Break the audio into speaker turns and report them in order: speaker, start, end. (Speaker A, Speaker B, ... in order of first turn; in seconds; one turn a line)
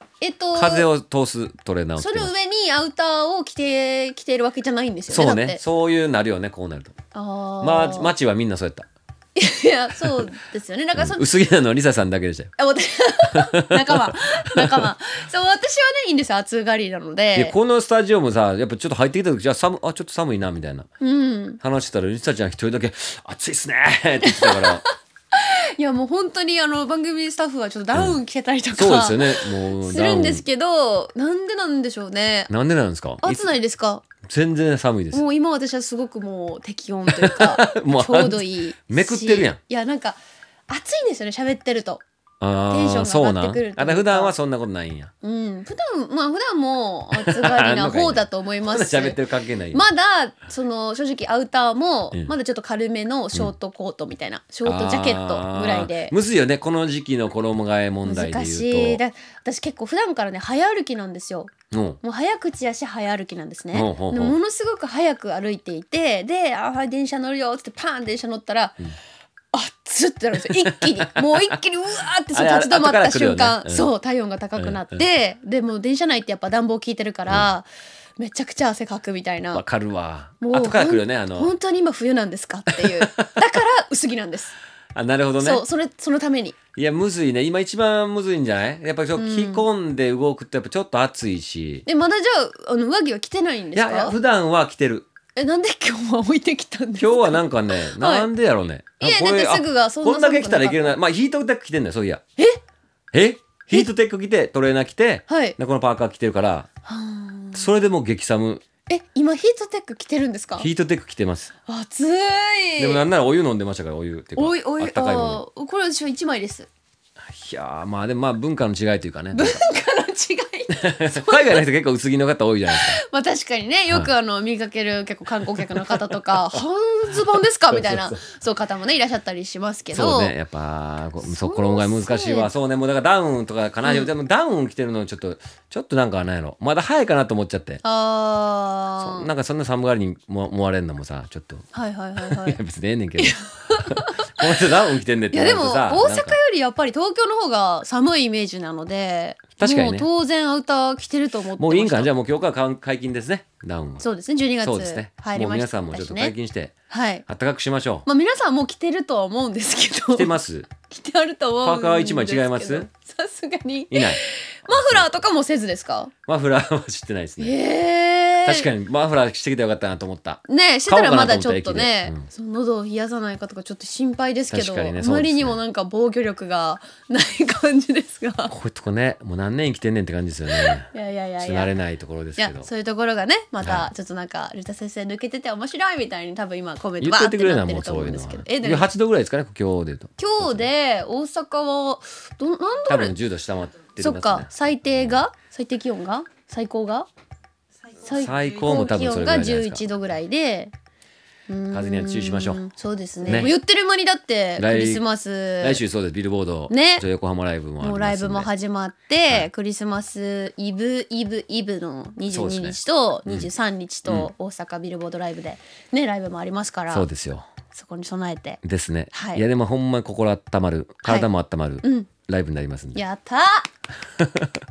Speaker A: 0.2-0.9
Speaker B: 0.5-2.3
Speaker A: 2.0-5.6
Speaker B: 5.1-7.0
Speaker A: 7.1-8.1
Speaker B: 7.6-8.9
Speaker A: 9.3-11.3
Speaker B: 10.9-12.5
Speaker A: 12.6-17.6
Speaker B: 13.3-14.8
Speaker B: 17.3-20.9
Speaker A: 21.0-21.6
Speaker B: 21.6-24.8
Speaker A: 24.2-32.5
Speaker B: 27.9-28.2
Speaker B: 28.7-30.4
Speaker B: 32.5-33.5
Speaker A: 33.2-34.1
Speaker B: 34.2-35.2
Speaker A: 35.1-42.0
Speaker B: 37.1-39.6
Speaker B: 42.4-45.1
Speaker A: 42.7-44.3
Speaker A: 45.2-49.2
Speaker B: 47.1-49.8
Speaker A: 49.7-56.1
Speaker B: 54.6-59.0
Speaker A: 58.0-68.8
Speaker B: 61.7-62.0
Speaker B: 63.7-64.4
Speaker A: 69.5-79.6
Speaker B: 70.4-71.3
Speaker B: 72.3-73.9
Speaker B: 79.5-81.5
Speaker A: 80.4-84.5
Speaker B: 82.7-83.3
Speaker B: 84.9-85.6
Speaker A: 85.4-86.6
Speaker B: 86.7-91.8
Speaker A: 89.2-89.7
Speaker A: 91.8-94.2
Speaker B: 93.7-95.1
Speaker A: 95.3-98.3
Speaker B: 97.0-102.2
Speaker A: 99.0-101.0
Speaker B: 103.1-106.7
Speaker A: 105.3-105.6
Speaker A: 106.8-107.7
Speaker B: 107.5-108.6
Speaker A: 108.9-110.7
Speaker B: 110.6-111.5
Speaker A: 111.7-113.0
Speaker B: 112.8-115.4
Speaker A: 114.4-116.7
Speaker B: 117.3-119.6
Speaker A: 119.3-121.6
Speaker B: 120.8-123.0
Speaker A: 122.7-130.3
Speaker B: 125.6-126.0
Speaker B: 127.7-128.2
Speaker B: 129.9-137.8
Speaker A: 131.2-132.5
Speaker A: 137.8-139.3
Speaker B: 139.0-141.7
Speaker A: 141.7-142.6
Speaker B: 142.3-146.4
Speaker A: 143.2-144.5
Speaker A: 145.3-152.1
Speaker B: 149.6-150.1
Speaker B: 151.6-154.1
Speaker A: 154.0-156.3
Speaker B: 154.6-156.7
Speaker A: 156.9-157.2
Speaker B: 157.3-158.1
Speaker A: 158.1-160.3
Speaker B: 160.1-160.7
Speaker A: 160.9-166.1
Speaker B: 161.6-162.9
Speaker B: 163.9-165.1
Speaker B: 166.2-167.6
Speaker A: 167.4-168.7
Speaker B: 168.4-172.2
Speaker A: 170.5-178.5
Speaker B: 174.5-175.6
Speaker B: 178.5-180.9
Speaker A: 180.5-181.7
Speaker B: 181.4-182.7
Speaker A: 182.4-188.9
Speaker B: 187.0-190.7
Speaker A: 190.2-193.1
Speaker B: 192.9-195.2
Speaker A: 193.9-197.1
Speaker A: 198.0-200.7
Speaker B: 198.1-199.8
Speaker A: 201.5-205.8
Speaker B: 201.7-202.6
Speaker B: 203.3-203.5
Speaker B: 204.6-205.0
Speaker B: 205.6-208.5
Speaker A: 206.7-207.0
Speaker A: 207.8-217.1
Speaker B: 212.3-213.5
Speaker B: 216.9-217.5
Speaker A: 217.7-218.6
Speaker B: 218.6-223.0
Speaker A: 219.1-219.4
Speaker A: 221.8-222.1
Speaker A: 222.9-223.7
Speaker B: 224.2-224.5